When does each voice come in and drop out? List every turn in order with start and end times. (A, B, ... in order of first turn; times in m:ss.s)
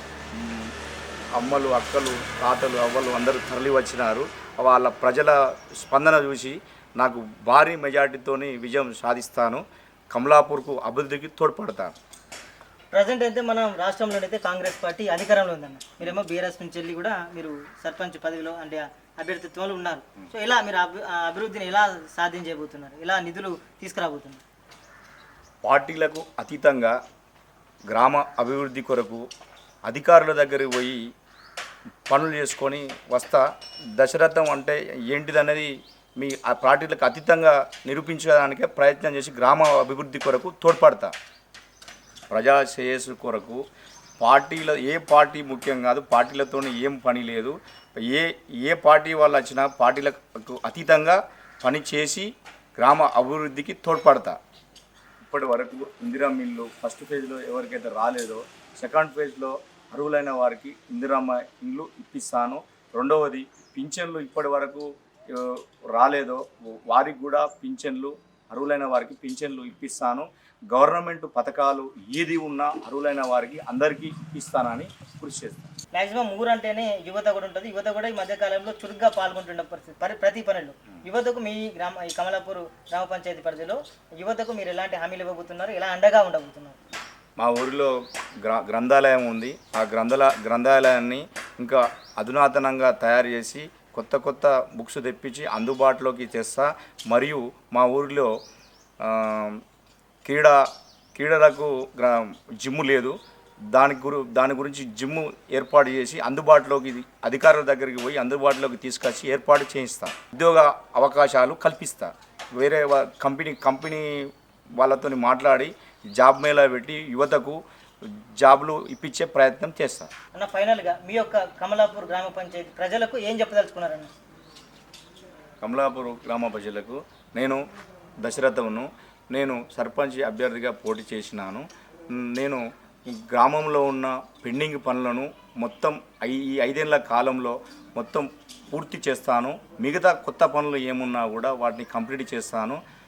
0:00.3-0:00.7 A
0:01.4-0:11.9 A
0:12.9-0:24.4 B
0:25.6-0:26.9 A
0:27.9-0:29.2 A
0:29.8-0:31.0 A
0:32.1-0:33.4 A
0:33.9-0:41.1 A
0:42.3-0:43.6 A
0:44.2-0:54.4 A
0:55.2-1:15.7 A
1:15.9-1:26.8 B
1:27.4-1:38.3 A
1:39.0-1:39.6 A
1:40.2-1:40.6 A
1:41.1-1:43.1 A
1:43.7-1:54.3 A
1:54.8-2:00.1 A
2:00.3-2:04.1 B
2:05.6-2:07.6 A
2:08.2-2:22.8 A